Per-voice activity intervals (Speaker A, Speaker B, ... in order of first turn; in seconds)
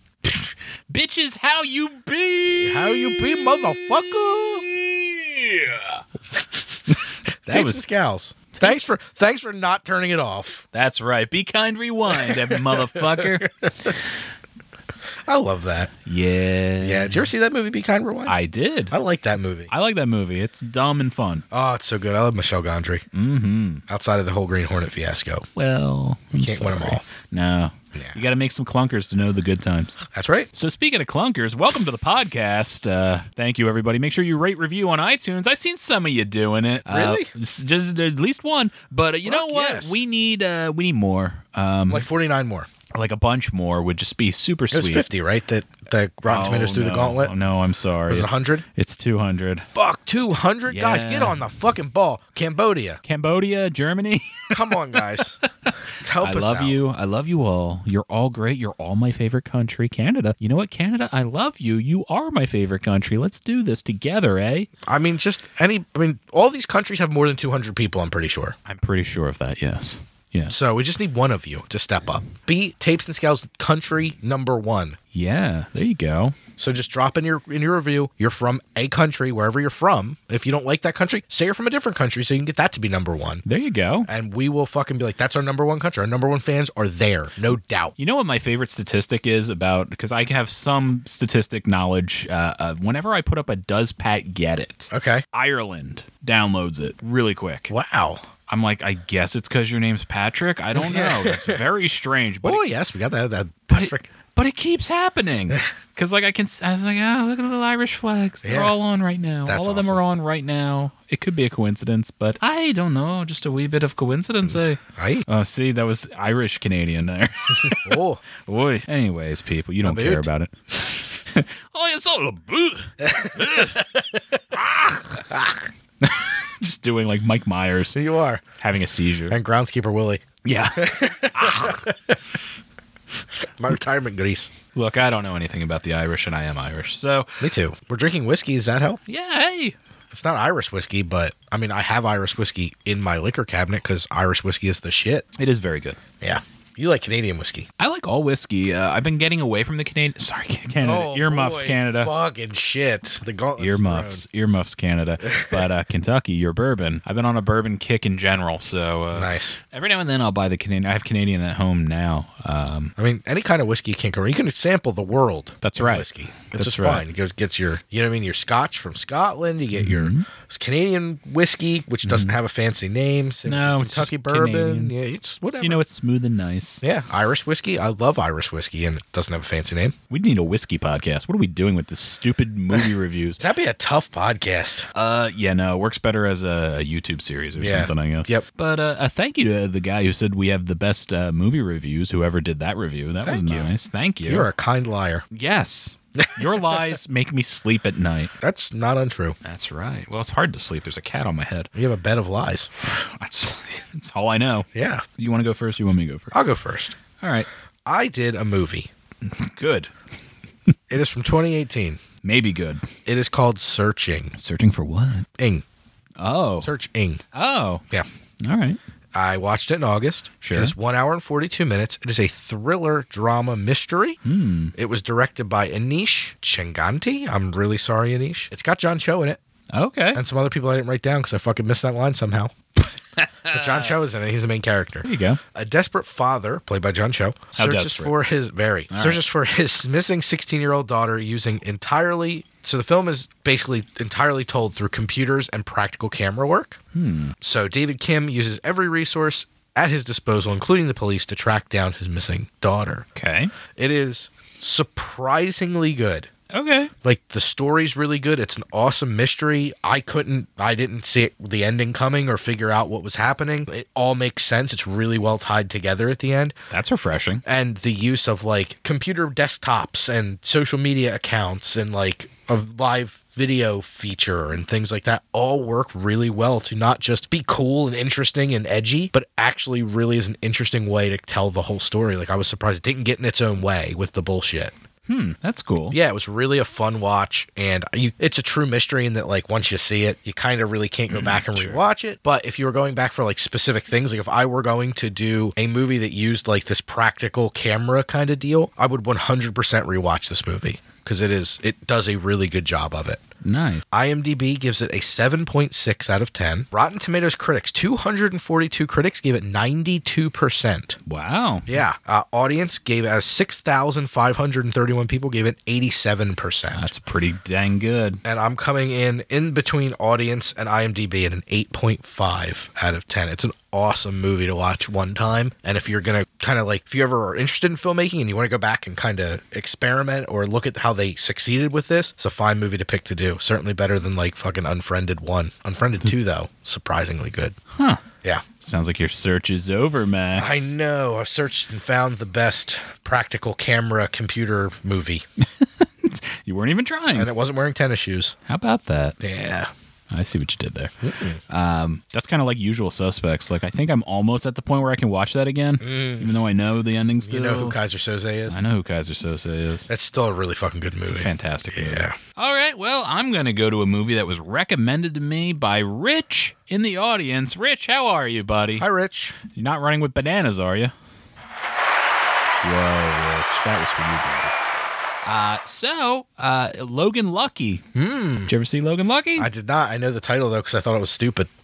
Speaker A: 0.2-6.0, 7.5-7.8, 10.7-13.5, 16.1-17.3, 18.3-18.9, 19.7-21.4, 23.1-23.8, 25.6-30.0, 30.5-42.1, 42.9-45.1, 46.3-49.7, 50.7-51.4, 53.0-55.0, 55.7-64.7, 68.7-70.7, 75.1-76.3, 83.5-84.1, 88.0-97.7, 98.5-102.7, 103.7-120.5, 121.3-123.8, 124.5-125.2, 126.0-128.0, 128.6-129.4, 130.4-131.9, 134.8-137.5, 139.1-139.8, 145.4-146.0, 147.8-152.1, 153.6-162.9, 165.6-167.1, 169.8-170.3, 172.1-172.3, 173.4-174.9, 175.5-176.8, 180.1-183.4, 184.9-194.5, 195.3-198.3, 199.4-201.7, 202.8-206.4, 207.2-207.5, 209.3-209.9, 212.2-212.8, 214.3-215.3, 216.2-216.7, 217.3-217.8, 218.4-218.8, 220.4-220.8, 224.2-224.7, 229.7-230.2, 233.2-233.9, 235.0-235.4, 237.6-238.2, 238.9-239.2, 246.9-247.3, 253.2-253.5, 256.5-256.9, 266.7-267.4, 285.1-286.0, 291.1-291.8, 303.4-303.9, 311.1-311.8, 316.7-318.2, 337.7-338.0, 338.6-340.7, 345.6-347.3, 348.5-349.2, 350.1-350.9, 351.5-357.8, 358.5-359.9, 361.1-368.9, 369.5-370.9, 372.6-374.5, 375.2-377.8, 378.5-379.5
Speaker B: 2.5-4.6, 7.5-10.6, 12.1-14.0, 15.2-15.9, 16.8-18.4, 18.9-19.7, 21.5-23.1, 23.9-25.4, 26.4-27.0, 27.9-28.2, 30.1-30.5, 36.9-37.3, 39.2-40.0, 41.9-42.7, 44.7-47.3, 48.1-48.6, 49.7-53.0, 54.5-55.4, 56.0-56.8, 64.8-68.6, 70.5-75.0, 76.6-83.4, 84.1-88.0, 94.9-95.2, 97.7-98.2, 100.7-101.7, 102.4-104.1, 108.4-108.8, 109.5-110.0, 114.5-115.2, 117.7-118.2, 119.8-120.3, 123.0-124.6, 125.3-125.6, 128.0-128.4, 129.3-132.2, 133.6-134.5, 137.4-139.0, 140.1-145.2, 146.2-147.7, 150.8-154.2, 155.2-155.7, 159.1-159.6, 163.0-175.8, 176.8-179.9, 183.4-184.9, 187.6-188.5, 193.2-193.7, 194.2-195.2, 196.2-197.0, 198.4-199.4, 201.8-202.7, 204.8-205.1, 206.3-206.9, 207.9-208.9, 210.9-212.0, 213.1-214.3, 215.4-215.6, 216.6-217.2, 219.2-224.2, 224.8-229.4, 230.1-232.5, 233.5-246.8, 247.4-253.1, 253.8-256.3, 257.0-266.5, 267.4-284.7, 285.9-303.2, 303.9-311.0, 311.7-316.9, 318.2-337.6, 340.4-345.2, 347.1-348.4, 349.2-349.7, 351.0-351.4, 355.8-356.3, 357.2-358.6, 359.9-362.2, 368.8-369.4, 377.9-378.5, 379.4-381.5